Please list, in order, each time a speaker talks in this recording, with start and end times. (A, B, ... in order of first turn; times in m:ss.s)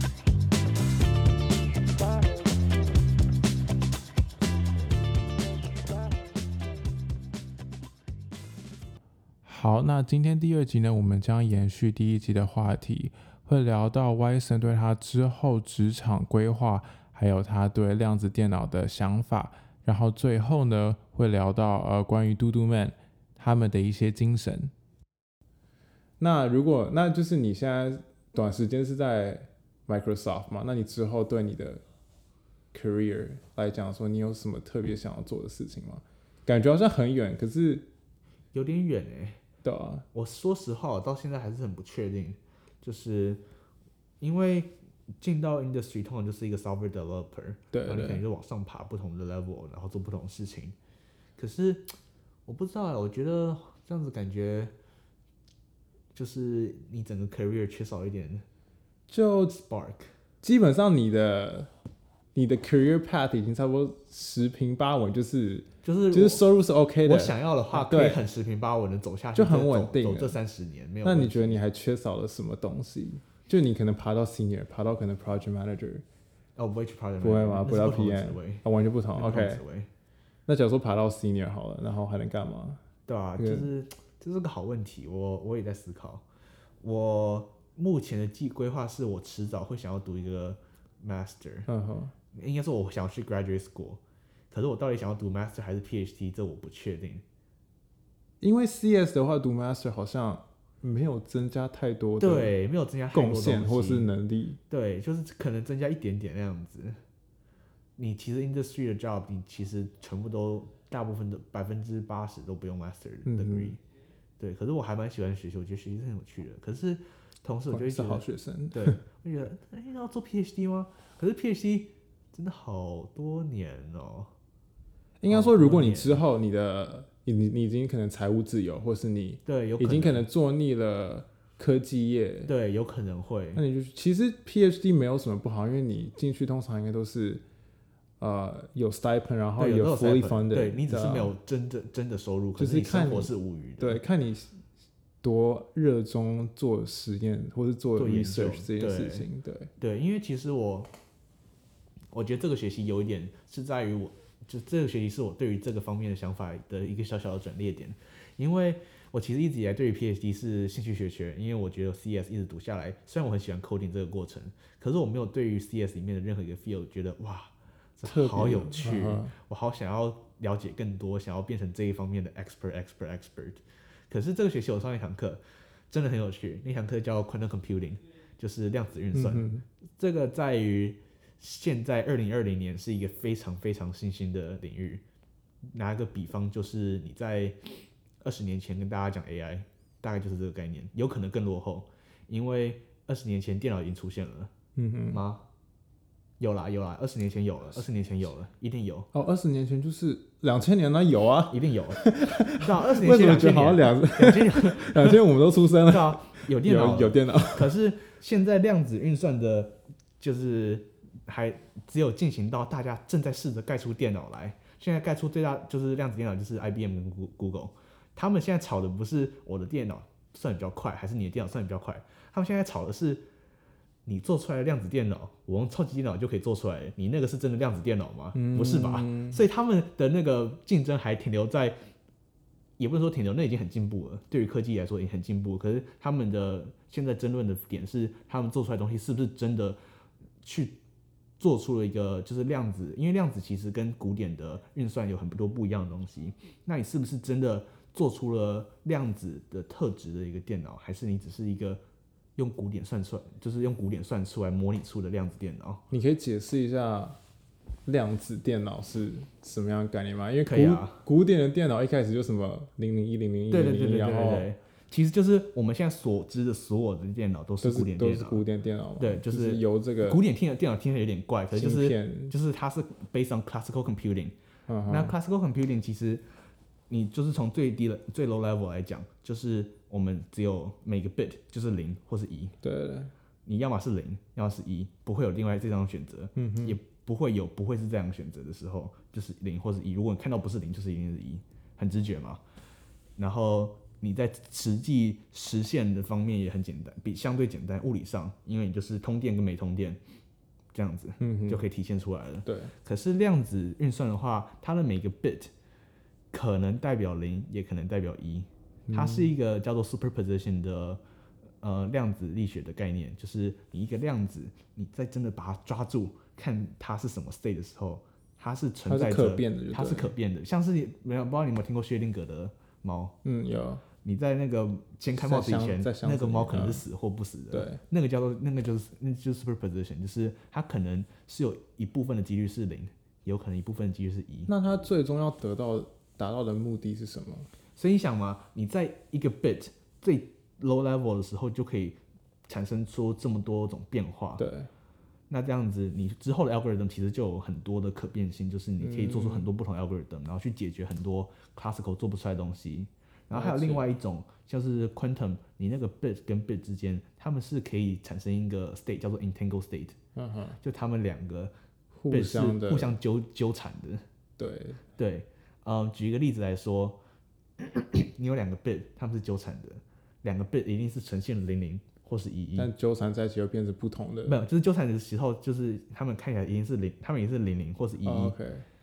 0:09.4-0:24.7 A
0:26.2-0:31.8 A
0:32.7-0:37.9 A
0:38.5-0:39.4 B
0:39.6-0:40.0 A
0:40.1-0:43.4 B
0:44.2-0:50.8 B
0:47.7-0:48.2 A
0:51.4-0:51.9 B
0:52.4-0:54.7 B
0:56.1-0:58.4 B
0:59.1-0:59.6 A
0:59.5-1:00.1 B
1:00.4-1:01.7 A
1:02.3-1:08.2 A
1:05.8-1:06.4 B
1:07.0-1:11.6 B
1:09.3-1:10.4 A
1:11.0-1:16.0 A
1:16.6-1:19.9 B
1:17.2-1:19.6 A
1:20.5-1:22.8 A
1:23.1-1:26.2 B
1:23.4-1:23.7 A
1:26.8-1:31.7 B
1:31.7-1:32.1 A
1:32.3-1:37.2 B
1:38.4-1:42.5 A
1:42.2-1:44.1 B
1:43.1-1:44.6 A
1:44.7-1:47.0 B
1:48.0-1:53.8 B
1:53.2-1:53.8 A
1:54.4-2:04.3 B
1:57.7-1:59.0 A
2:05.2-2:12.5 A
2:05.3-2:06.2 B
2:09.4-2:10.2 B
2:12.5-2:13.6 B
2:13.5-2:17.4 A
2:18.2-2:21.3 A
2:19.6-2:24.0 B
2:22.6-2:24.6 A
2:25.2-2:29.7 A
2:28.0-2:29.3 B
2:29.8-2:30.9 B
2:32.1-2:59.5 B
2:48.0-2:49.3 A
2:59.1-2:59.6 A
3:00.0-3:05.0 B
3:05.7-3:07.6 B
3:08.2-3:14.5 B
3:14.8-3:15.2 A
3:15.1-3:15.4 B
3:16.4-3:19.1 B
3:19.1-3:27.8 A
3:21.5-3:25.3 B
3:25.8-3:43.2 B
3:44.0-3:51.8 B
3:48.3-3:49.4 A
3:52.8-3:59.8 B
4:00.4-4:00.8 B
4:01.4-4:11.8 B
4:12.4-4:15.8 B
4:15.9-4:17.2 A
4:17.8-4:24.5 A
4:20.4-4:21.0 B
4:23.5-4:28.4 B
4:27.6-4:30.2 A
4:29.0-4:34.3 B
4:31.5-4:32.3 A
4:34.7-4:35.1 A
4:34.9-4:36.2 B
4:36.9-4:42.5 B
4:42.6-4:43.1 A
4:43.4-4:52.4 B
4:46.4-4:46.8 A
4:53.2-5:00.0 B
5:00.7-5:05.5 B
5:01.2-5:01.6 A
5:02.4-5:02.7 A
5:06.3-5:11.0 B
5:08.9-5:09.3 A
5:11.6-5:23.1 B
5:18.9-5:20.1 A
5:23.2-5:23.8 A
5:24.0-5:34.5 B
5:25.1-5:26.8 A
5:27.5-5:27.8 A
5:34.5-5:37.5 A
5:37.8-5:44.4 B
5:44.4-5:44.7 A
5:45.3-6:00.0 B
5:48.8-5:49.5 A
5:53.3-5:53.8 A
6:00.2-6:00.6 A
6:00.6-6:01.5 B
6:02.0-6:03.0 A
6:02.1-6:04.0 B
6:04.4-6:04.8 A
6:05.0-6:07.0 B
6:07.6-6:12.7 B
6:12.6-6:14.4 A
6:14.2-6:18.4 B
6:18.0-6:18.6 A